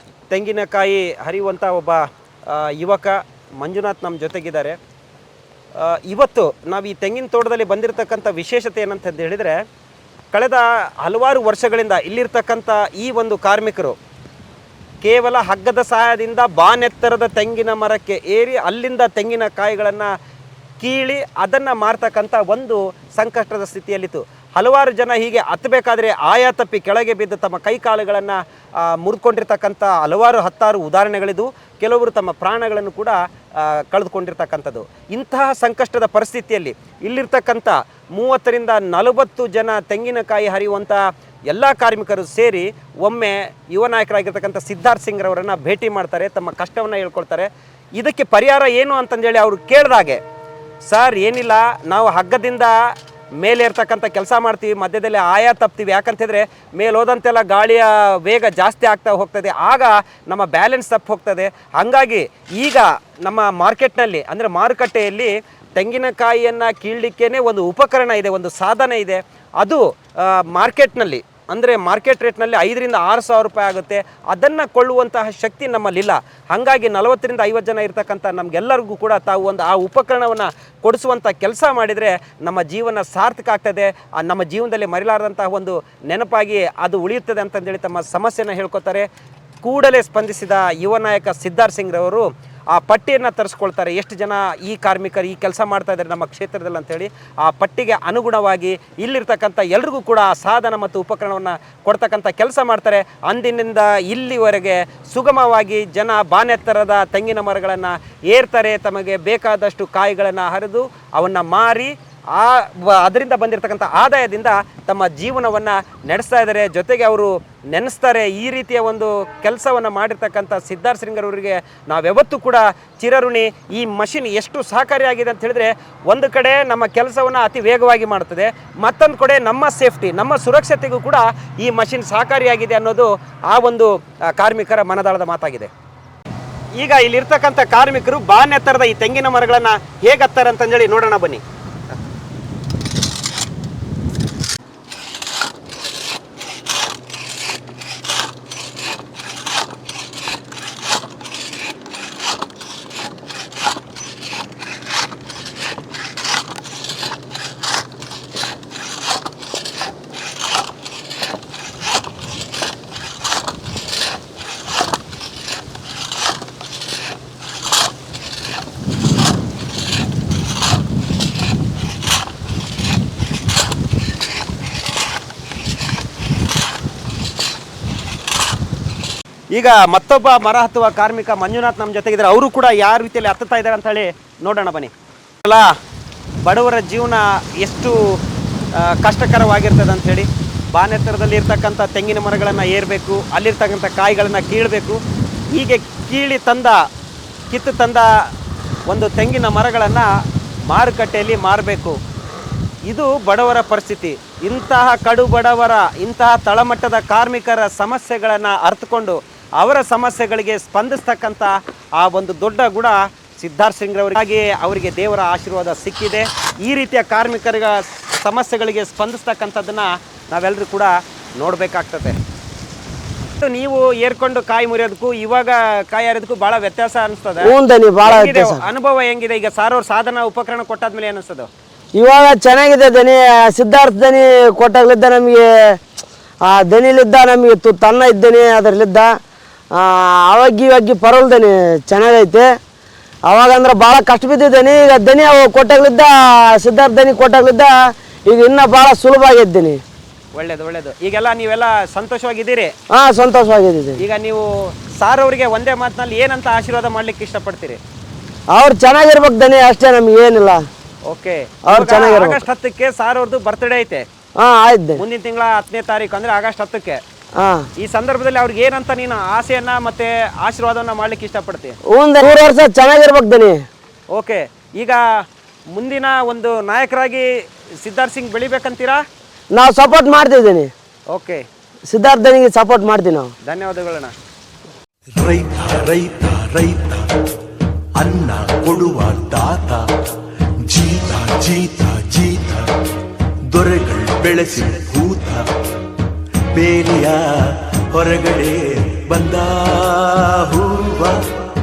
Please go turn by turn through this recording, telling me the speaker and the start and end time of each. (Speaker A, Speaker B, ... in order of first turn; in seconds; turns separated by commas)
Speaker A: 0.3-4.8, Speaker A: 5.8-9.6, Speaker A: 10.3-14.0, Speaker A: 15.0-20.1, Speaker A: 20.8-50.2, Speaker A: 50.8-89.1, Speaker A: 89.6-135.7, Speaker A: 136.8-141.4, Speaker A: 179.5-184.9, Speaker A: 185.4-185.7, Speaker A: 186.4-188.0, Speaker A: 188.8-195.0, Speaker A: 195.5-196.8, Speaker A: 197.5-198.1, Speaker A: 198.9-200.1, Speaker A: 200.7-202.0, Speaker A: 202.9-222.2, Speaker A: 223.4-231.5, Speaker B: 227.4-228.7, Speaker B: 231.9-235.8, Speaker B: 236.4-239.1, Speaker B: 239.7-242.5, Speaker B: 243.3-247.7, Speaker B: 248.2-249.8, Speaker A: 250.3-252.7, Speaker B: 252.9-254.0, Speaker A: 254.0-257.8, Speaker B: 258.5-260.6, Speaker A: 261.1-264.0, Speaker B: 261.6-262.4, Speaker B: 264.4-265.0, Speaker A: 265.0-267.0, Speaker B: 267.4-267.7, Speaker A: 267.8-271.7, Speaker B: 271.9-273.6, Speaker A: 274.1-275.0, Speaker A: 275.7-277.3, Speaker A: 277.8-279.0, Speaker B: 279.5-280.7, Speaker A: 281.1-281.4, Speaker B: 281.9-283.3, Speaker A: 283.4-284.1, Speaker C: 285.1-287.1, Speaker C: 287.9-289.9, Speaker C: 290.6-292.7, Speaker C: 293.5-295.5, Speaker C: 296.5-301.2